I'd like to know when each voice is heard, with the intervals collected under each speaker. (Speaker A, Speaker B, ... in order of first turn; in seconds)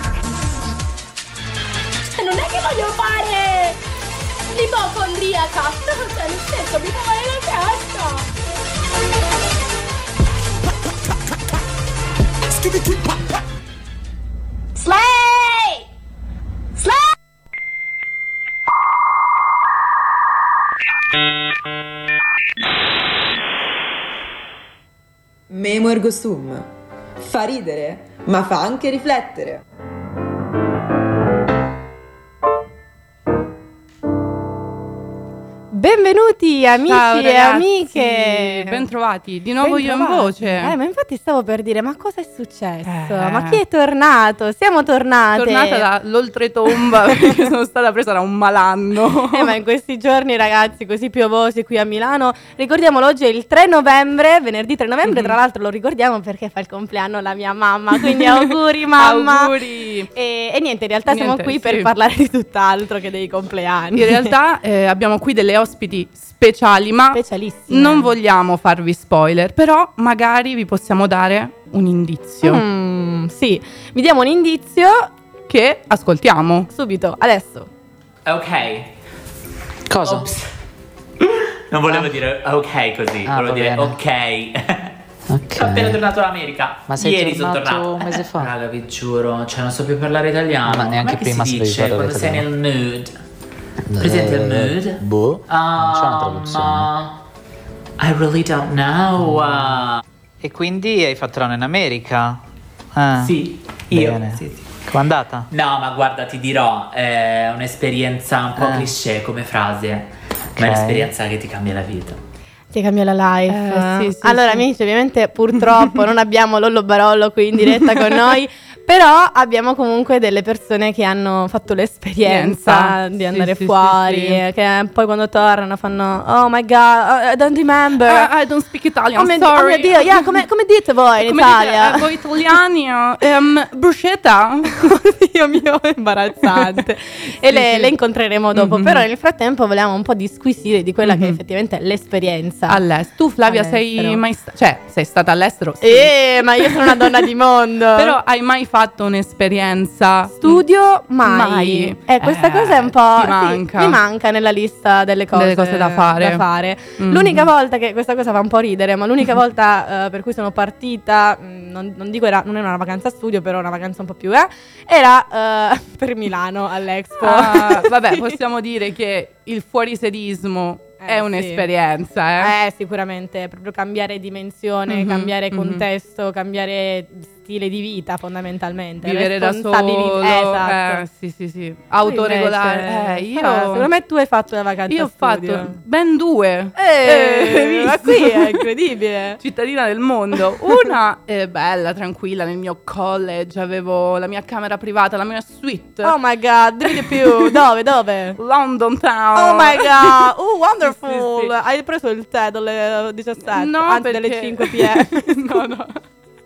Speaker A: 2.1-3.8, 4.5-8.3, 14.7-15.8, 16.8-17.1
Speaker B: 25.5-26.7, 27.2-29.6
Speaker C: 35.7-38.8, 39.6-45.9, 46.7-47.4, 49.3-59.5, 60.1-64.3, 67.1-68.1, 72.4-75.1, 76.7-77.7, 112.7-128.3, 129.1-132.1, 134.8-142.8, 143.4-144.2, 145.8-148.2, 150.4-168.3, 171.0-171.6, 172.4-181.0, 182.0-185.8, 186.7-189.4, 196.0-198.4, 199.3-205.6
Speaker D: 36.9-40.7, 42.9-43.6, 45.4-49.5, 55.0-55.3, 59.0-60.1, 61.1-61.9, 63.9-72.6, 75.5-76.7, 113.5-114.7, 122.2-124.4, 128.0-130.3, 131.2-134.7, 137.4-137.9, 138.5-139.0, 141.0-141.4, 142.7-147.0, 147.9-150.6, 151.2-154.0, 155.3-156.4, 157.0-157.5, 167.2-172.5, 174.9-175.8, 179.0-183.9, 184.9-188.6, 189.4-196.2, 196.8-197.6, 198.3-200.3, 200.8-201.5, 203.5-206.0
Speaker E: 78.2-78.9, 80.0-80.4, 81.7-84.9, 85.5-93.1, 94.0-97.2, 98.0-100.0, 103.2-104.7, 105.5-112.2
Speaker F: 79.9-80.3, 83.2-84.0, 85.3-86.0, 86.9-88.5, 90.6-92.5, 93.9-96.9, 99.2-99.8, 100.4-102.4, 103.0-103.3, 103.9-105.5, 108.5-108.9, 110.6-111.1